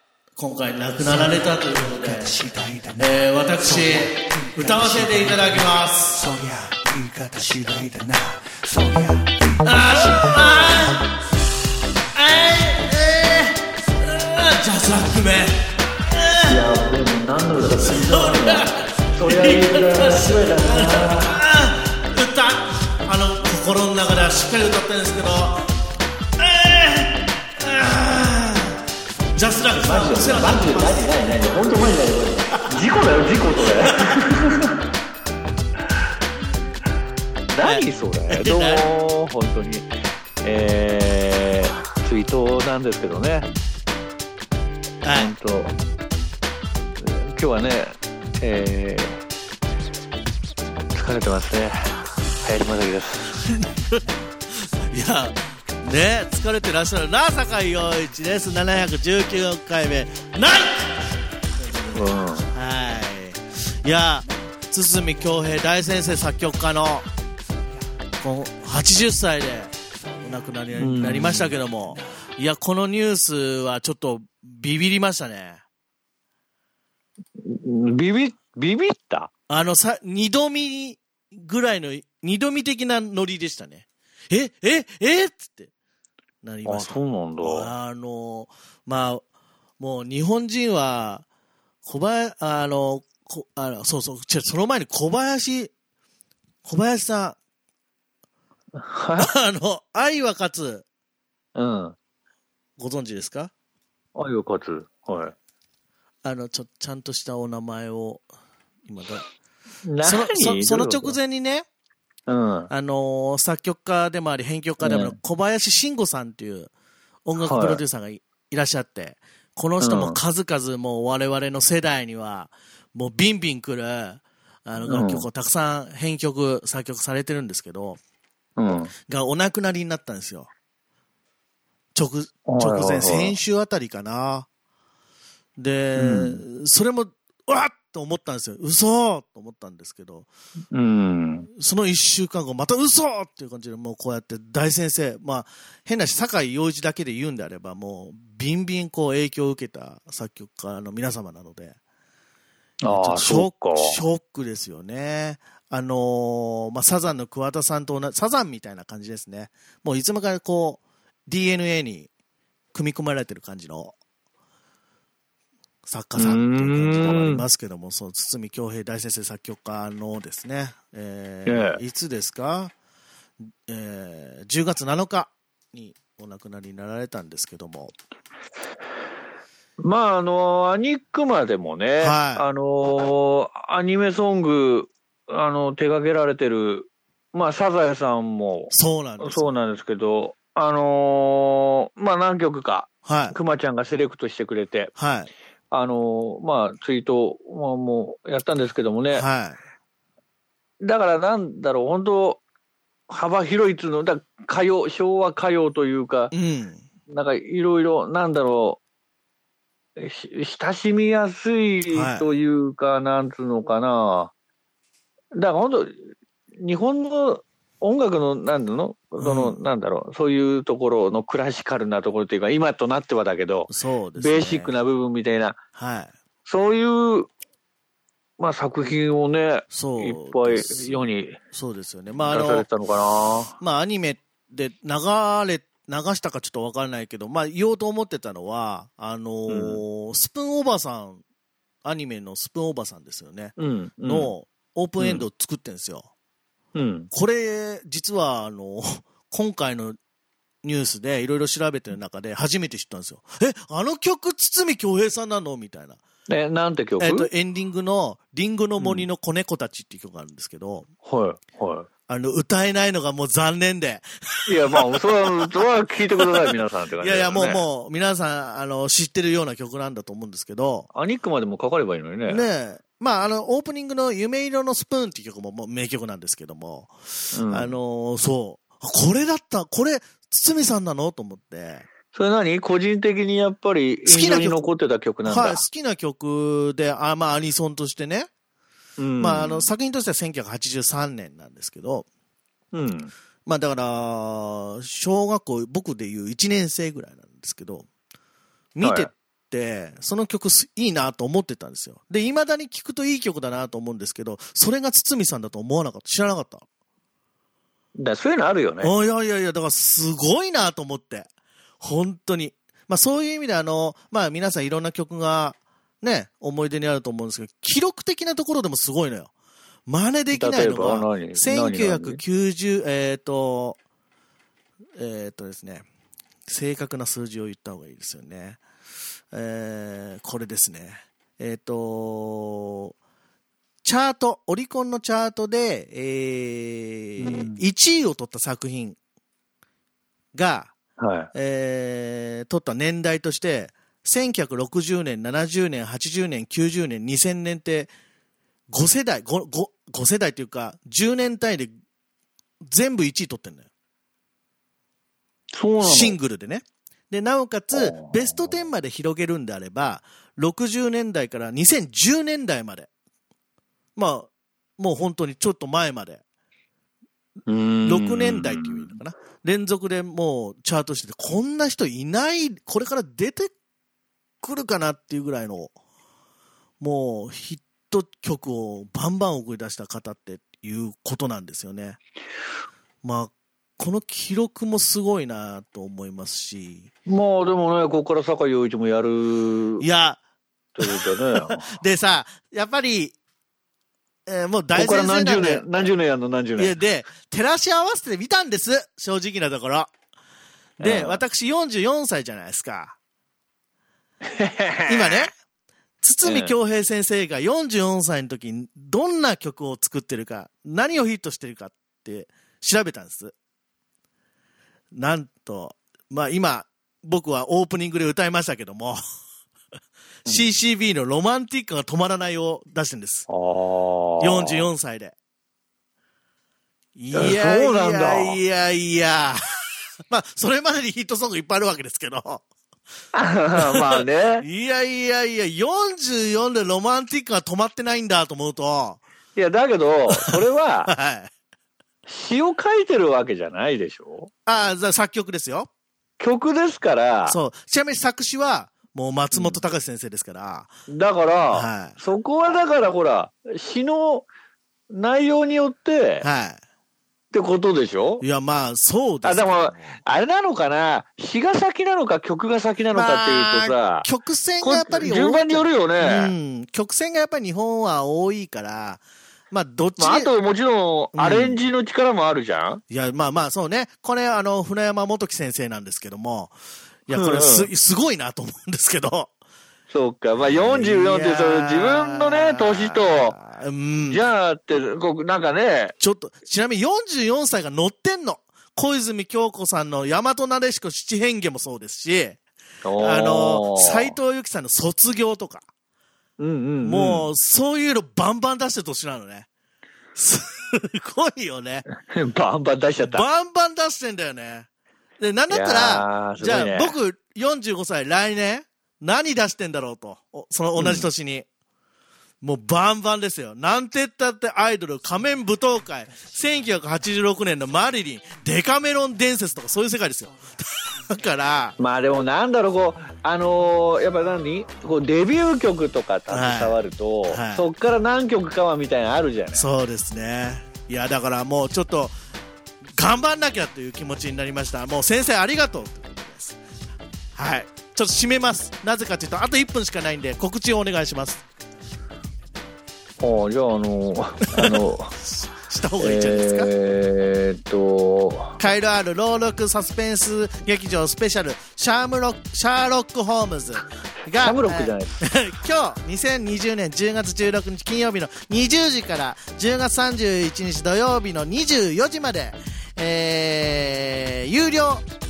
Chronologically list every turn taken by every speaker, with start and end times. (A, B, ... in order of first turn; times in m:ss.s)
0:00.4-0:06.4 A
0:02.5-0:02.9 B
0:06.4-0:08.9 B
0:07.2-0:09.3 C
0:09.6-0:11.0 A
0:12.1-0:16.6 A
0:16.4-0:21.3 C
0:17.8-0:25.6 A
0:26.4-0:28.8 A
0:29.4-0:31.1 A
0:29.7-0:34.8 C
0:33.8-0:34.3 A
0:37.5-0:39.9 C
0:37.6-0:38.8 A
0:40.4-0:43.5 C
0:45.0-0:45.3 A
0:45.1-0:45.7 C
0:47.0-0:49.2 C
0:50.9-0:53.5 C
0:53.5-0:54.0 A
0:54.7-1:07.0 A
1:01.9-1:02.5 C
1:08.2-1:15.6 A
1:10.8-1:11.6 C
1:17.4-1:19.3 C
1:19.5-1:25.7 A
1:26.4-1:29.2 A
1:26.6-1:27.7 C
1:29.8-1:31.2 A
1:31.8-1:35.7 A
1:36.6-1:37.4 A
1:38.8-1:39.3 C
1:39.2-1:40.8 A
1:41.6-1:42.0 C
1:42.8-1:43.5 A
1:44.1-1:45.3 C
1:46.2-1:48.2 A
1:48.9-1:49.2 A
1:49.8-1:51.2 C
1:50.0-1:51.7 A
1:52.3-1:52.7 C
1:52.7-1:56.7 A
1:54.8-1:55.1 C
1:57.2-2:08.0 A
1:57.4-1:57.8 C
1:59.8-2:00.2 C
2:04.8-2:05.3 C
2:08.6-2:08.9 C
2:09.1-2:10.5 A
2:12.0-2:14.5 A
2:12.5-2:13.4 C
2:15.6-2:20.3 A
2:16.0-2:16.4 C
2:20.7-2:21.5 C
2:21.6-2:31.8 A
2:32.8-2:34.0 C
2:33.0-2:42.1 A
2:42.7-2:43.9 A
2:45.8-2:52.7 A
2:46.2-2:47.4 C
2:51.5-2:51.8 C
2:53.6-2:57.9 A
2:59.8-3:14.9 C
3:02.0-3:02.5 A
3:08.7-3:09.5 A
3:13.0-3:13.4 A
3:15.0-3:15.3 A
3:15.7-3:19.3 C
3:19.1-3:19.6 A
3:20.8-3:22.4 C
3:23.1-3:26.3 C
3:26.3-3:26.8 A
3:27.1-3:28.8 C
3:30.0-3:34.3 C
3:31.9-3:32.3 A
3:35.3-3:36.1 C
3:36.6-3:45.6 C
3:39.2-3:39.6 A
3:43.7-3:44.8 A
3:45.8-3:46.1 A
3:46.5-3:47.3 C
3:48.4-3:51.4 C
3:49.7-3:51.0 A
3:51.5-3:52.7 A
3:52.3-3:53.5 C
3:53.6-4:01.2 A
3:59.5-3:59.8 C
4:01.8-4:06.1 A
4:03.6-4:04.3 C
4:05.0-4:05.2 C
4:06.8-4:07.1 C
4:07.1-4:10.0 A
4:10.6-4:16.0 A
4:16.3-4:17.3 C
4:17.0-4:20.9 A
4:18.8-4:19.1 C
4:21.0-4:21.9 C
4:22.1-4:25.6 A
4:24.5-4:27.6 C
4:26.2-4:30.9 A
4:30.9-4:32.4 C
4:32.3-4:41.9 A
4:37.3-4:37.8 C
4:42.1-4:45.6 C
4:44.1-4:44.6 A
4:45.2-4:48.3 A
4:49.0-4:49.7 C
4:49.2-4:52.1 A
4:52.7-4:53.1 C
4:53.4-4:57.8 A
4:58.8-5:06.6 A
4:58.8-4:59.1 C
5:08.0-5:08.9 C
5:08.8-5:11.3 A
5:11.8-5:19.3 A
5:19.9-5:23.8 A
5:20.3-5:22.2 C
5:25.0-5:25.8 A
5:26.5-5:28.6 A
5:29.3-5:32.9 A
5:33.8-5:39.0 A
5:37.2-5:37.6 C
5:40.3-5:40.7 A
5:41.0-5:41.3 C
5:41.3-5:47.9 A
5:48.7-5:51.7 A
5:52.6-5:53.7 A
5:55.5-5:56.2 C
5:55.8-6:02.9 A
5:57.7-5:58.6 C
6:04.0-6:06.2 A
6:07.5-6:08.9 C
6:07.8-6:13.5 A
6:14.4-6:15.7 A
6:16.8-6:22.0 A
6:23.0-6:26.9 A
6:27.1-6:29.8 C
6:29.8-6:30.2 A
6:30.8-6:31.8 C
6:30.8-6:33.1 A
6:34.3-6:35.9 A
6:34.8-6:36.8 C
6:36.6-6:39.9 A
6:40.8-6:41.2 C
6:40.8-6:43.0 A
6:44.2-6:45.3 C
6:44.9-6:45.3 A
6:46.0-6:53.3 A
6:46.2-6:46.5 C
6:54.9-6:59.0 A
7:00.2-7:03.3 A
7:03.3-7:04.7 C
7:04.2-7:05.1 A
7:07.0-7:09.4 A
7:07.1-7:08.4 C
7:10.1-7:12.4 A
7:13.1-7:14.4 C
7:13.6-7:19.0 A
7:19.3-7:20.9 C
7:20.9-7:21.3 A
7:22.1-7:24.3 C
7:24.4-7:25.7 A
7:26.2-7:27.4 C
7:27.3-7:30.7 A
7:29.3-7:29.6 C
7:30.9-7:34.3 C
7:31.5-7:32.0 A
7:34.9-7:36.3 C
7:36.2-7:36.6 A
7:37.3-7:38.2 C
7:38.2-7:40.0 A
7:39.2-7:44.1 C
7:42.9-7:50.3 A
7:44.6-7:46.3 C
7:50.0-7:52.8 C
7:51.1-7:51.6 A
7:52.9-7:56.5 A
7:57.1-7:59.3 A
7:57.1-7:57.7 C
7:59.9-8:03.4 C
8:00.4-8:04.2 A
8:04.1-8:05.9 C
8:06.0-8:12.4 A
8:12.8-8:14.1 C
8:13.0-8:15.6 A
8:16.4-8:17.3 C
8:16.8-8:19.5 A
8:20.1-8:21.8 A
8:21.9-8:23.2 C
8:23.0-8:24.7 A
8:25.2-8:31.4 A
8:25.5-8:26.9 C
8:30.8-8:31.1 C
8:32.4-8:41.8 A
8:41.8-8:49.7 C
8:46.3-8:47.7 A
8:49.5-8:52.1 A
8:53.0-8:56.6 A
8:57.4-9:01.4 A
9:03.2-9:05.1 C
9:04.6-9:06.7 A
9:06.0-9:08.6 C
9:08.6-9:25.0 A
9:14.4-9:15.2 C